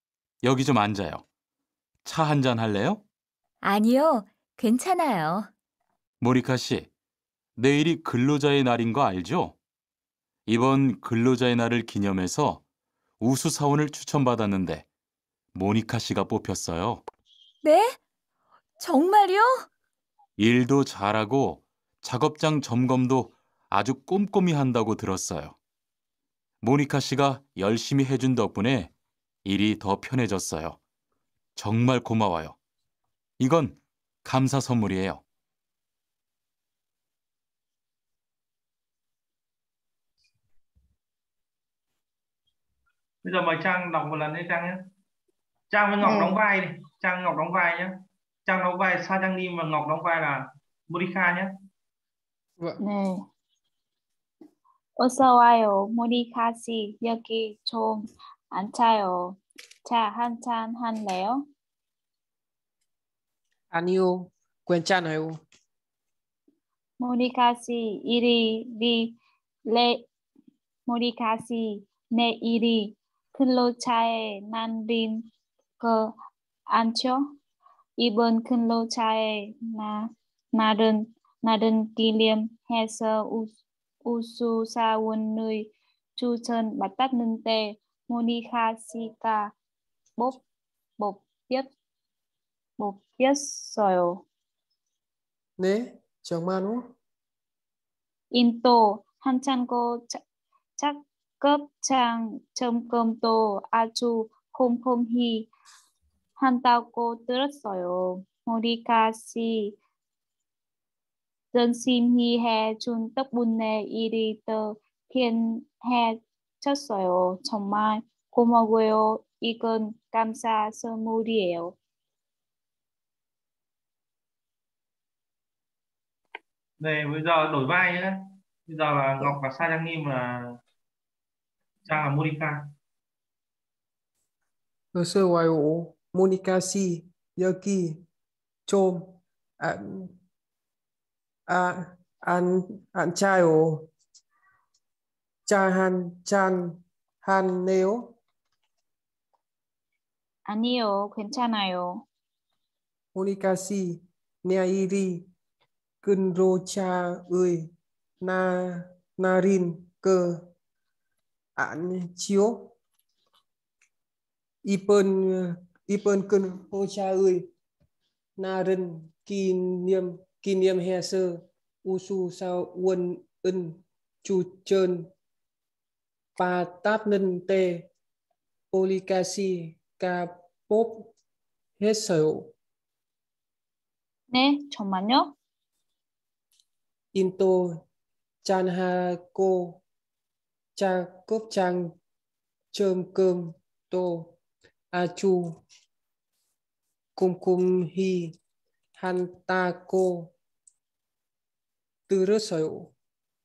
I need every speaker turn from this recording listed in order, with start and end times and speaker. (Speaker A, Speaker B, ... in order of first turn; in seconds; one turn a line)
Speaker A: 0.4-1.2
Speaker A: 2.0-3.0
Speaker B: 3.6-5.5
Speaker A: 6.2-6.9
Speaker A: 7.6-9.6
Speaker A: 10.5-12.6
Speaker A: 13.2-14.8
Speaker A: 15.5-17.0
Speaker B: 17.6-18.0
Speaker B: 18.8-19.7
Speaker A: 20.4-25.6
Speaker A: 26.6-28.9
Speaker A: 29.4-30.8
Speaker A: 31.6-32.6
Speaker A: 33.4-35.2
Speaker C: 43.2-44.8
Speaker C: 45.7-47.9
Speaker D: 46.0-46.4
Speaker C: 48.5-51.5
Speaker D: 52.8-53.2
Speaker D: 55.0-61.4
Speaker E: 63.7-65.4
Speaker D: 67.0-69.2
Speaker D: 69.7-70.1
Speaker D: 70.9-75.3
Speaker D: 75.8-76.1
Speaker D: 76.7-77.2
Speaker D: 78.0-83.5
Speaker D: 84.0-89.5
Speaker D: 90.2-90.4
Speaker D: 91.0-91.7
Speaker D: 92.8-94.2
Speaker E: 95.6-96.9
Speaker D: 98.3-100.2
Speaker D: 100.8-105.5
Speaker D: 106.4-109.8
Speaker D: 111.5-121.8
Speaker C: 126.8-130.6
Speaker C: 131.8-132.7
Speaker E: 134.9-138.0
Speaker E: 138.7-140.2
Speaker E: 141.5-143.9
Speaker E: 145.5-148.2
Speaker D: 150.5-152.0
Speaker E: 153.1-155.3
Speaker E: 156.0-160.5
Speaker E: 161.6-162.7
Speaker E: 164.6-167.5
Speaker E: 168.4-175.1
Speaker E: 176.4-177.9
Speaker E: 178.7-181.1
Speaker E: 181.8-182.5
Speaker D: 184.3-185.3
Speaker E: 187.1-187.8
Speaker E: 188.4-189.8
Speaker E: 190.8-192.0
Speaker E: 192.7-194.4
Speaker E: 194.9-195.6
Speaker E: 197.2-198.4
Speaker E: 199.0-200.3
Speaker E: 202.1-202.9